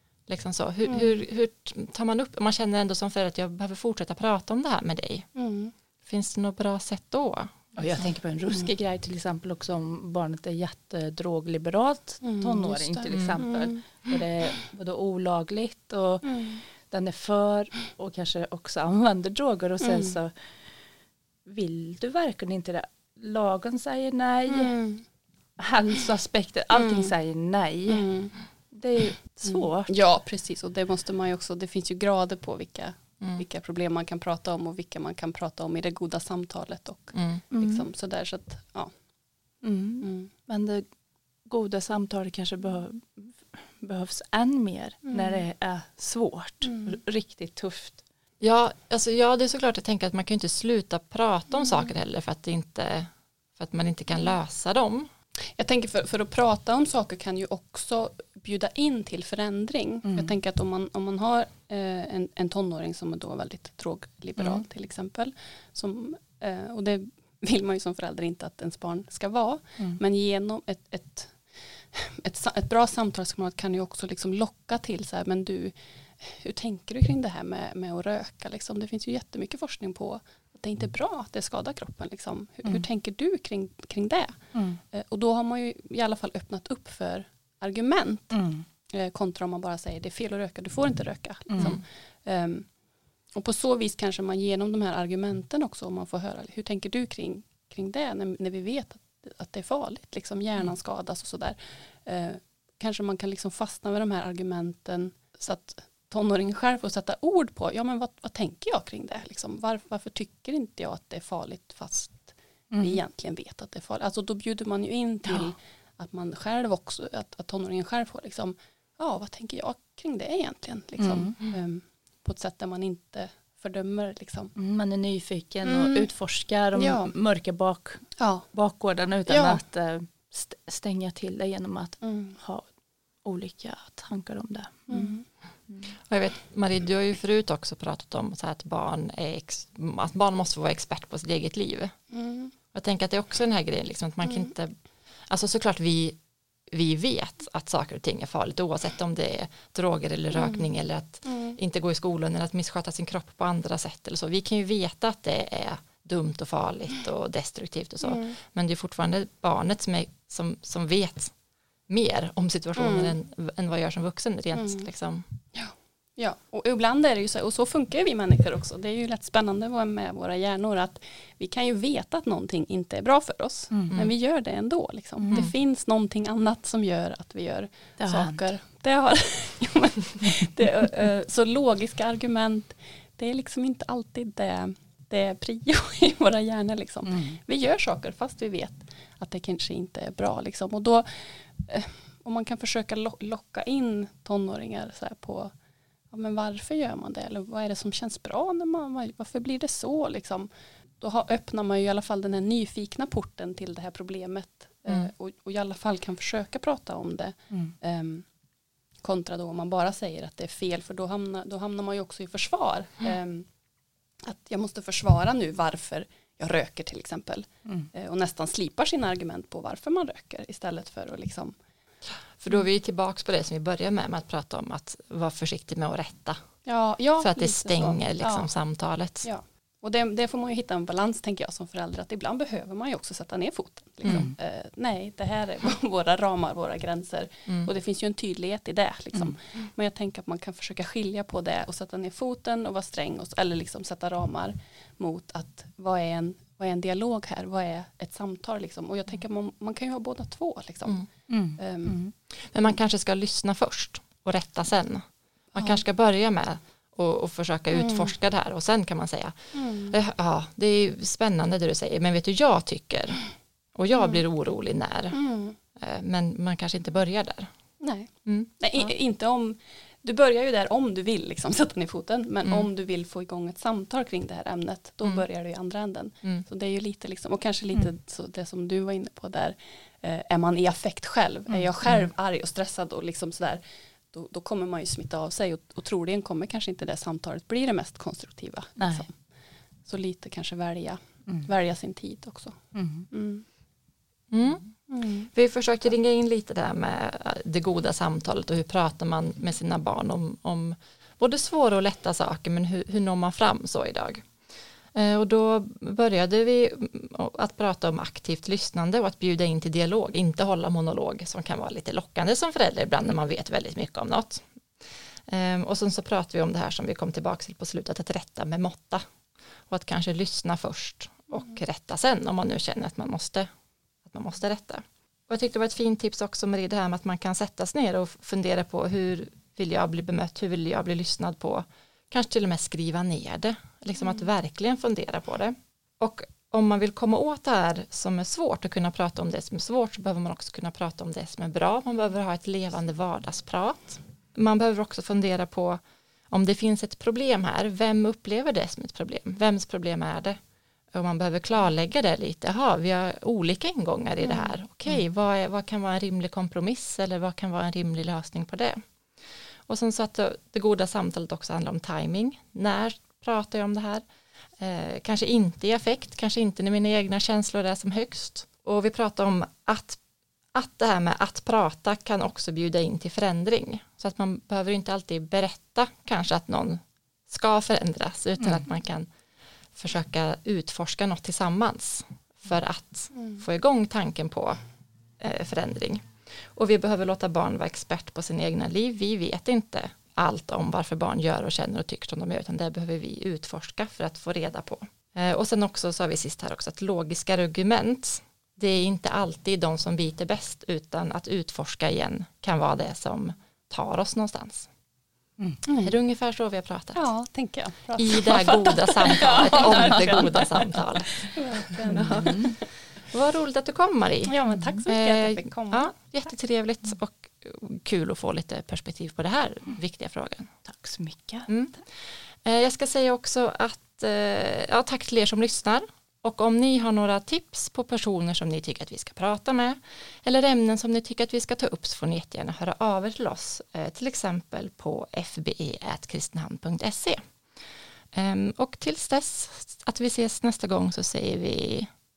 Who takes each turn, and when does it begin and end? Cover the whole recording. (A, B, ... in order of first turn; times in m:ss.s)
0:00.3-0:05.3 A
0:00.8-0:01.2 B
0:05.4-0:05.7 B
0:06.0-0:08.0 A
0:07.8-0:20.3 C
0:12.2-0:14.2 B
0:13.1-0:13.4 A
0:16.3-0:16.6 B
0:19.8-0:20.2 B
0:21.5-0:24.8 C
0:24.5-0:25.0 B
0:25.6-0:28.1 C
0:26.7-0:27.1 B
0:27.9-0:28.3 B
0:28.7-0:29.9 C
0:29.5-0:38.9 B
0:37.1-0:37.4 A
0:37.5-0:37.9 C
0:39.6-0:40.8 C
0:40.0-0:40.3 B
0:41.5-0:48.0 C
0:45.1-0:45.4 B
0:46.6-0:47.0 B
0:48.4-0:55.1 A
0:55.6-1:32.7 B
1:00.0-1:00.3 C
1:04.4-1:04.6 C
1:24.5-1:24.8 C
1:28.3-1:28.6 C
1:31.5-1:31.8 C
1:33.3-2:04.5 B
1:52.7-1:53.0 C
2:01.0-2:01.4 C
2:04.6-2:12.6 C
2:05.6-2:06.1 B
2:06.8-2:07.1 B
2:08.2-2:08.5 B
2:09.3-2:09.6 B
2:12.0-2:12.4 B
2:13.2-2:15.2 C
2:14.9-2:15.2 B
2:16.1-2:22.0 A
2:22.1-2:22.5 B
2:22.7-2:24.8 A
2:24.2-2:24.5 B
2:25.3-2:26.2 A
2:26.7-2:41.3 A
2:30.3-2:30.7 B
2:31.2-2:31.6 B
2:38.0-2:38.4 B
2:41.9-2:45.3 A
2:42.8-2:43.2 B
2:44.5-2:44.9 B
2:45.5-3:15.5 B
2:53.7-2:54.1 C
2:55.2-2:55.5 C
2:58.0-2:58.4 C
3:07.1-3:07.4 C
3:16.1-3:28.3 B
3:29.0-3:33.5 B
3:34.2-3:41.6 B
3:42.4-3:46.4 A
3:46.6-3:48.5 B
3:47.2-3:49.3 A
3:49.2-4:11.0 B
3:54.1-3:54.4 C
4:11.3-4:12.1 C
4:11.6-4:12.0 B
4:12.4-4:23.2 A
4:15.5-4:15.8 B
4:17.7-4:18.1 B
4:19.5-4:20.0 B
4:23.8-4:25.2 A
4:24.0-4:24.2 B
4:25.1-4:25.6 B
4:25.8-4:27.5 A
4:27.8-4:49.2 B
4:28.2-4:28.6 A
4:41.5-4:42.1 C
4:48.8-4:49.0 C
4:49.9-4:53.4 B
4:52.7-4:53.1 C
4:54.3-5:04.3 A
4:54.9-4:55.3 B
5:04.9-5:14.5 A
5:15.3-5:19.0 A
5:19.7-5:23.5 A
5:24.0-5:50.4 A
5:50.9-5:58.8 A
5:54.2-5:54.5 B
5:59.7-6:04.0 A
6:04.6-6:10.0 A
6:10.6-6:19.1 A
6:19.8-6:24.6 A
6:25.2-6:44.7 A
6:45.7-6:45.9 B
6:45.7-6:47.1 A
6:46.9-6:52.6 B
6:48.0-6:51.3 A
6:49.7-6:50.1 C
6:51.9-7:00.5 A
6:51.9-6:52.5 C
6:54.2-6:55.9 B
7:00.6-7:01.5 C
7:01.5-7:01.8 A
7:02.4-7:17.2 A
7:18.1-7:21.9 A